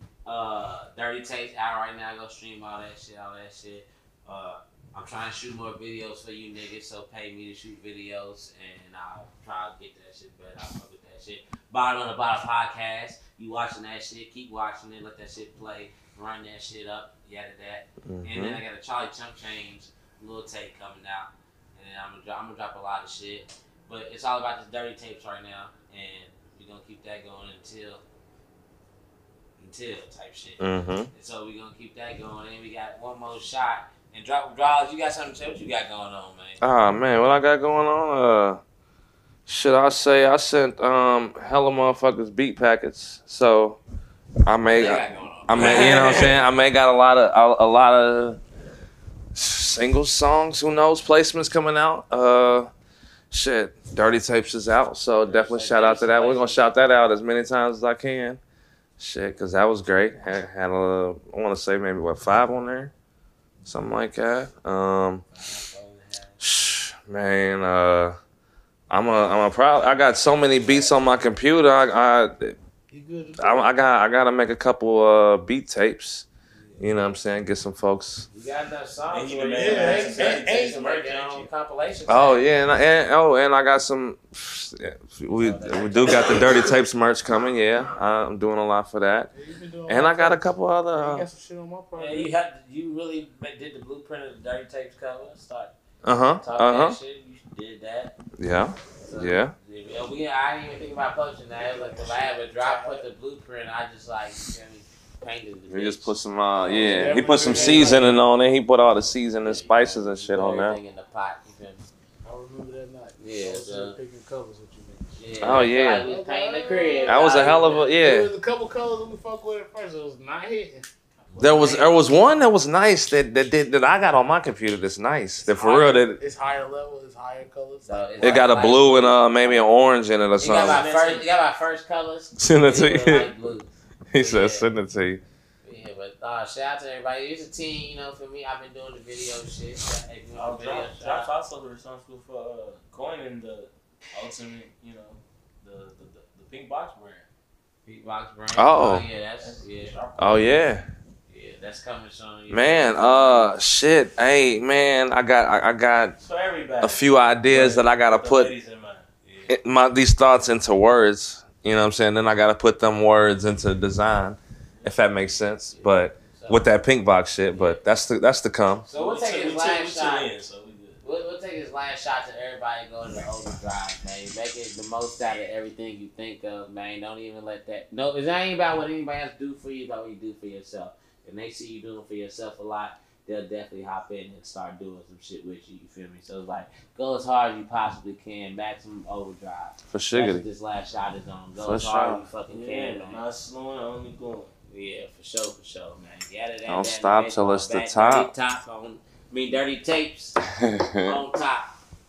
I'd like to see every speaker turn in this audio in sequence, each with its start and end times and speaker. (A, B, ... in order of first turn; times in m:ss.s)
0:00.2-0:28.0 A
0:18.0-0:18.6 B
0:29.6-0:30.6 A
0:30.6-0:31.1 B
0:31.1-0:36.6 A
0:36.6-0:38.6 B
0:39.5-0:43.8 B
0:44.4-0:48.4 B
0:44.7-0:46.4 A
0:49.4-0:52.7 B
0:53.3-0:58.4 B
0:55.2-0:56.7 A
0:59.0-1:02.9 B
1:03.6-1:05.2 B
1:05.3-1:06.8 A
1:06.4-1:08.2 B
1:08.9-1:12.6 B
1:10.6-1:11.0 A
1:12.9-1:13.8 C
1:13.4-1:16.3 B
1:16.6-1:16.8 A
1:16.8-1:18.3 B
1:18.3-1:22.5 A
1:19.1-1:21.5 D
1:19.6-1:20.8 C
1:22.1-1:29.3 B
1:25.4-1:26.7 A
1:29.3-1:32.3 C
1:29.9-1:31.2 B
1:32.0-1:35.7 A
1:36.0-1:37.0 B
1:36.4-1:38.1 A
1:38.4-1:39.5 B
1:39.0-1:48.2 A
1:41.6-1:43.1 C
1:45.7-1:50.8 B
1:46.7-1:48.2 C
1:49.4-1:51.8 A
1:52.2-2:00.9 C
1:53.2-1:54.0 A
1:55.2-1:57.9 A
1:55.4-1:56.1 B
1:57.0-1:58.3 B
2:01.3-2:01.9 D
2:01.4-2:02.0 A
2:01.4-2:06.2 B
2:05.5-2:06.0 A
2:05.8-2:08.4 C
2:07.9-2:09.7 A
2:08.2-2:10.8 B
2:10.4-2:14.7 A
2:10.4-2:11.3 D
2:12.4-2:13.3 B
2:14.1-2:15.2 B
2:15.6-2:21.3 A
2:20.4-2:27.3 D
2:27.8-2:30.0 A
2:28.6-2:29.1 B
2:29.4-2:30.6 D
2:30.2-2:30.9 B
2:31.3-2:33.6 A
2:32.5-2:36.2 B
2:36.2-2:39.1 D
2:36.8-2:38.5 B
2:39.2-2:39.5 A
2:39.5-2:48.9 B
2:45.7-2:46.7 A
2:47.5-2:47.8 A
2:48.9-2:50.3 A
2:48.9-2:51.0 D
2:51.0-3:13.2 A
3:09.9-3:10.4 B
3:11.6-3:12.2 B
3:12.5-3:14.5 D
3:14.7-3:20.4 A
3:16.7-3:18.3 B
3:20.6-3:21.1 B
3:21.0-3:21.7 A